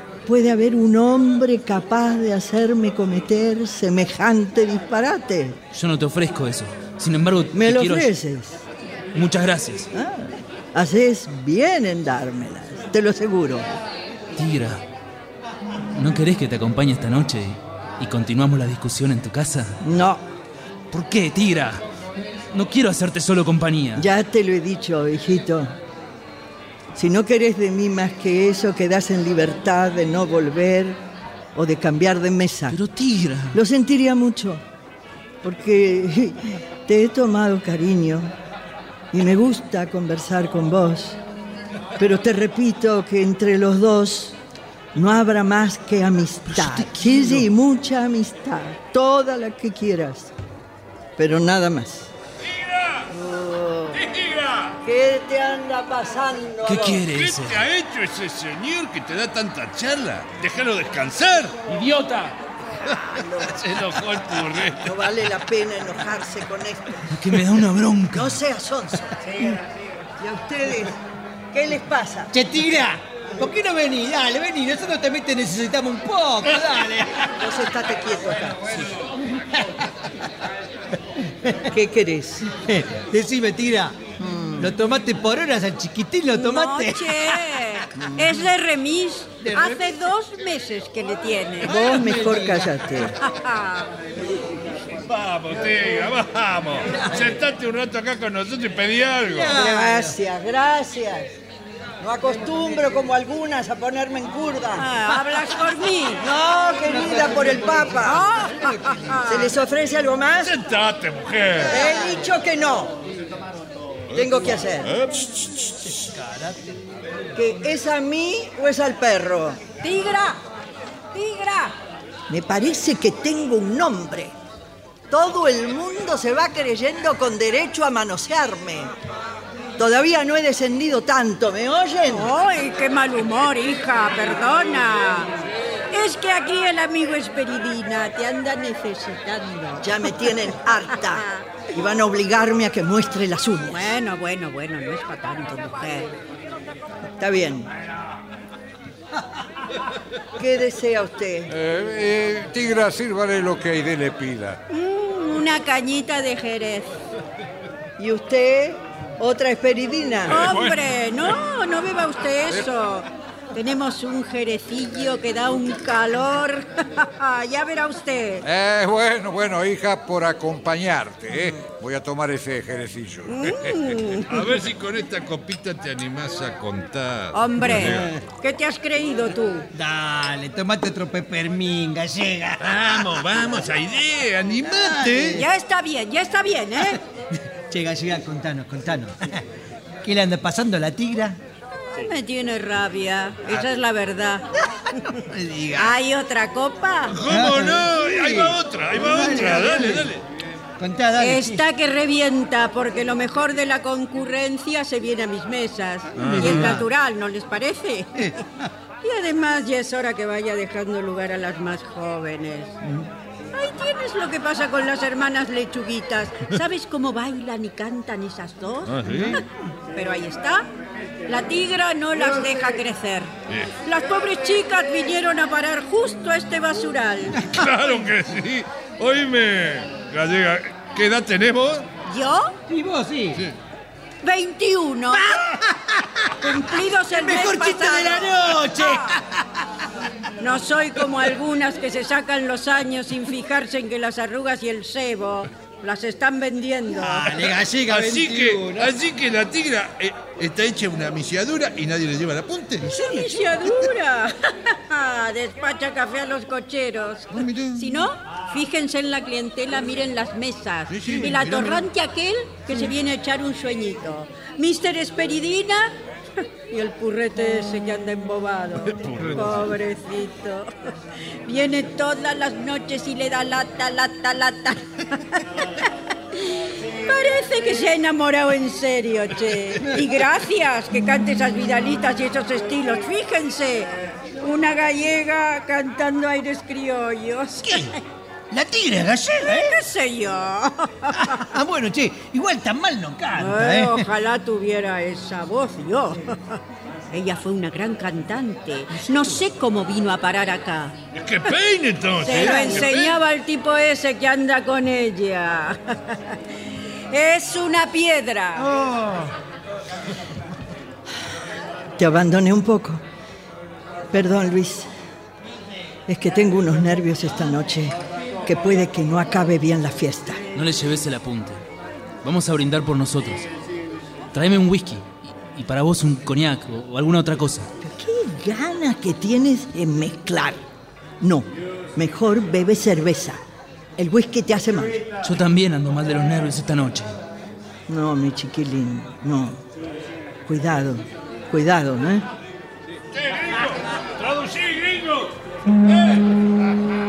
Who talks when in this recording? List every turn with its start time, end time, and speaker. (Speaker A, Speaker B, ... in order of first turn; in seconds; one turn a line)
Speaker A: 0.2-5.6
Speaker B: 5.7-8.1
Speaker A: 7.5-8.6
Speaker B: 9.1-9.9
Speaker A: 9.9-13.7
Speaker B: 14.3-14.8
Speaker B: 15.9-19.8
Speaker A: 19.8-20.2
Speaker B: 20.9-21.8
Speaker B: 22.5-24.1
Speaker A: 24.0-25.7
Speaker A: 26.9-31.0
Speaker A: 31.5-32.8
Speaker B: 32.7-33.6
Speaker A: 33.5-34.6
Speaker A: 35.4-38.3
Speaker A: 39.1-41.2
Speaker A: 42.0-44.4
Speaker A: 44.9-50.3
Speaker B: 46.5-47.5
Speaker A: 51.2-52.1
Speaker C: 52.5-53.1
Speaker A: 53.1-54.0
Speaker C: 53.9-54.8
Speaker A: 54.8-57.0
Speaker B: 56.6-57.6
Speaker C: 57.1-61.6
Speaker B: 61.7-62.3
Speaker C: 63.4-64.9
Speaker A: 64.8-67.3
Speaker B: 67.1-68.4
Speaker A: 68.1-69.6
Speaker A: 70.2-71.0
Speaker A: 71.5-72.3
Speaker D: 72.3-78.5
Speaker A: 77.3-78.6
Speaker A: 81.7-82.5
Speaker D: 82.6-84.0
Speaker A: 84.2-84.7
Speaker D: 84.6-87.3
Speaker E: 86.3-91.7
Speaker A: 88.0-88.4
Speaker D: 89.4-89.8
Speaker A: 91.6-93.2
Speaker D: 91.7-92.7
Speaker E: 93.2-93.9
Speaker C: 95.0-99.5
Speaker D: 99.2-100.1
Speaker A: 99.5-101.3
Speaker A: 102.0-104.8
Speaker E: 104.7-106.2
Speaker A: 106.2-108.3
Speaker D: 106.8-107.9
Speaker E: 108.0-109.5
Speaker A: 109.2-110.6
Speaker C: 110.4-111.8
Speaker A: 111.6-113.0
Speaker A: 114.1-114.9
Speaker C: 114.1-116.0
Speaker A: 117.3-119.6
Speaker E: 119.8-120.4
Speaker E: 121.1-121.8
Speaker A: 122.3-124.3
Speaker A: 125.1-128.9
Speaker A: 129.8-132.3
Speaker E: 132.1-135.3
Speaker E: 135.9-140.4
Speaker A: 139.8-143.9
Speaker E: 140.9-141.4
Speaker E: 143.7-146.1
Speaker A: 147.2-147.7
Speaker A: 150.4-151.5
Speaker F: 151.5-154.6
Speaker E: 154.7-156.9
Speaker A: 158.0-160.5
Speaker E: 160.3-168.4
Speaker C: 160.3-160.8
Speaker F: 168.4-174.0
Speaker E: 173.3-174.4
Speaker C: 174.2-177.9
Speaker E: 177.3-179.7
Speaker D: 179.7-183.5
Speaker C: 182.6-185.4
Speaker D: 184.7-185.4
Speaker E: 185.3-187.0
Speaker D: 187.7-189.4
Speaker D: 190.0-191.4
Speaker E: 192.1-194.5
Speaker D: 195.1-195.9
Speaker E: 195.7-197.2
Speaker C: 197.1-200.2
Speaker D: 197.3-200.1
Speaker D: 200.8-201.6
Speaker E: 201.2-208.1
Speaker C: 206.2-206.8
Speaker D: 206.2-206.8
Speaker E: 209.0-212.8
Speaker E: 213.6-219.4
Speaker C: 218.8-219.4
Speaker E: 219.9-220.6
Speaker E: 221.3-223.3
Speaker E: 223.8-227.4
Speaker C: 227.4-231.8
Speaker E: 232.1-232.5
Speaker D: 232.7-233.4
Speaker E: 234.2-235.3
Speaker E: 236.4-239.1
Speaker D: 237.1-239.2
Speaker E: 240.4-247.4
Speaker D: 247.0-248.9
Speaker C: 247.9-252.9
Speaker E: 252.9-265.9
Speaker C: 260.9-261.8
Speaker E: 266.7-270.7
Speaker C: 268.9-269.7
Speaker E: 271.4-275.8
Speaker E: 276.9-283.9
Speaker E: 284.4-288.0
Speaker D: 288.5-289.8
Speaker E: 289.4-291.3
Speaker D: 291.2-294.1
Speaker E: 293.4-296.6
Speaker E: 297.1-300.9
Speaker C: 301.1-303.2
Speaker E: 302.2-306.6
Speaker E: 307.1-308.7
Speaker D: 308.8-309.1
Speaker A: 312.0-313.0
Speaker A: 314.1-314.9
Speaker A: 316.1-320.4
Speaker B: 320.5-321.6
Speaker B: 322.2-323.4
Speaker B: 324.3-327.7
Speaker A: 327.8-330.6
Speaker A: 331.2-333.4
Speaker A: 334.0-335.0
Speaker B: 335.2-337.1
Speaker A: 337.9-339.6
Speaker A: 340.4-342.2
Speaker C: 343.1-346.2